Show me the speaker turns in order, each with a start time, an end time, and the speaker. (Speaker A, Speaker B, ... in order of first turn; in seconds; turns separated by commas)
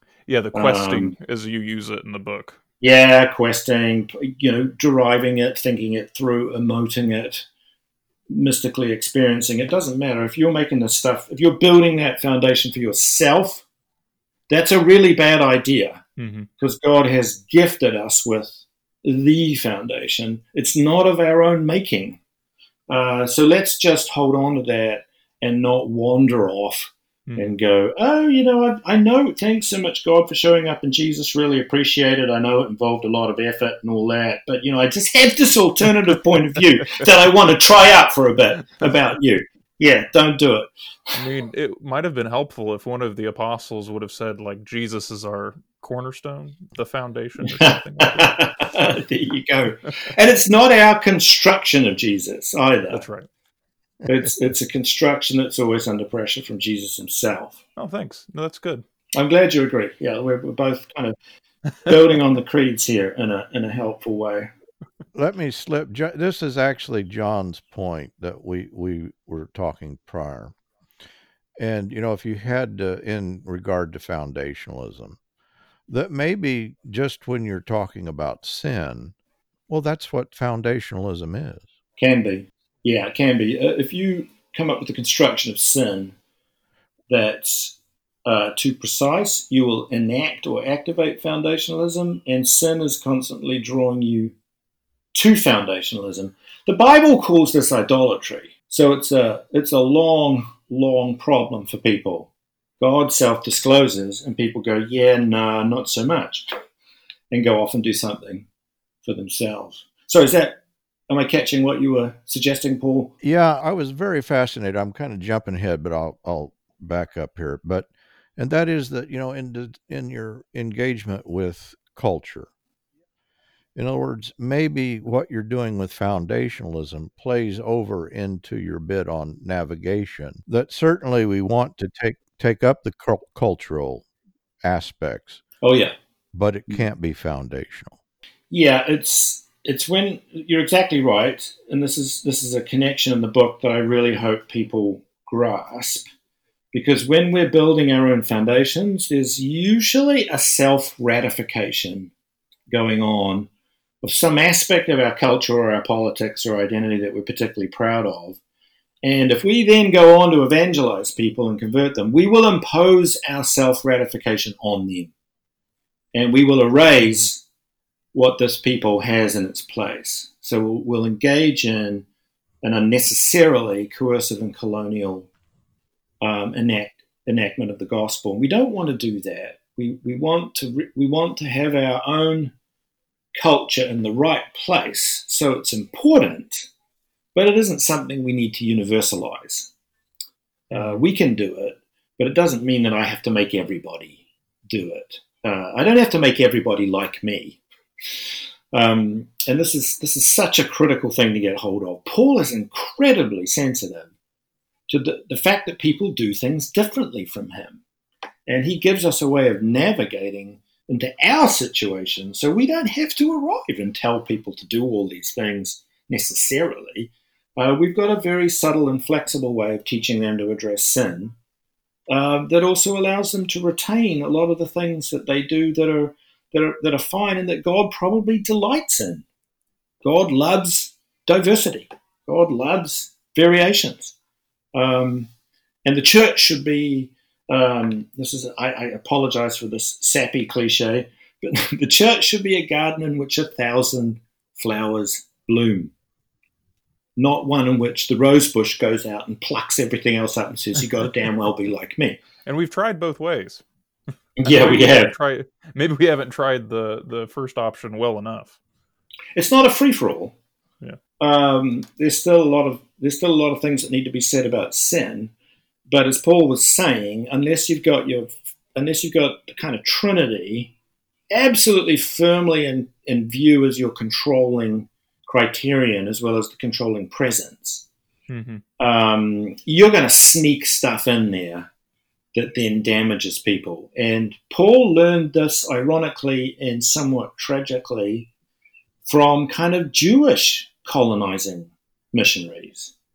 Speaker A: 0.3-2.6, Speaker B: 0.5-1.1, Speaker B: 2.8-7.5, Speaker B: 8.3-13.6, Speaker B: 14.5-16.0, Speaker A: 16.2-16.5, Speaker B: 16.6-22.2, Speaker B: 22.9-40.7, Speaker A: 41.1-48.4, Speaker B: 47.6-53.0, Speaker A: 52.9-53.3, Speaker B: 54.1-57.6, Speaker A: 57.8-58.8, Speaker B: 59.2-61.1, Speaker B: 61.9-64.5, Speaker C: 65.1-70.5, Speaker C: 71.6-75.2, Speaker C: 75.9-79.1, Speaker C: 79.7-81.7, Speaker B: 82.0-86.1, Speaker B: 87.1-94.3, Speaker B: 95.1-106.5, Speaker B: 107.3-108.4, Speaker B: 109.0-110.6, Speaker B: 111.1-113.1, Speaker C: 113.2-122.5, Speaker C: 123.8-134.1, Speaker C: 134.6-135.4, Speaker B: 135.6-135.9, Speaker C: 136.3-138.0, Speaker B: 138.5-146.1, Speaker B: 146.7-152.1, Speaker B: 152.7-153.5, Speaker B: 154.0-158.4, Speaker B: 159.0-165.1, Speaker B: 166.1-167.4, Speaker B: 168.1-172.0, Speaker B: 172.6-175.3, Speaker B: 176.2-182.5, Speaker B: 183.3-186.7, Speaker B: 187.3-189.7, Speaker B: 190.7-194.2, Speaker A: 190.7-191.0, Speaker B: 194.7-197.6, Speaker B: 198.7-204.1, Speaker B: 204.9-207.8, Speaker B: 208.5-221.3, Speaker B: 222.1-229.2, Speaker B: 230.0-234.1, Speaker B: 234.7-235.3, Speaker B: 235.8-245.9, Speaker B: 247.2-252.2, Speaker A: 252.4-253.6, Speaker B: 254.4-255.1, Speaker A: 254.4-258.6, Speaker B: 259.3-260.3, Speaker B: 261.2-265.3, Speaker B: 265.9-270.7, Speaker B: 271.3-277.8, Speaker A: 278.3-278.6, Speaker B: 278.8-281.7, Speaker B: 282.3-288.3, Speaker B: 289.1-292.9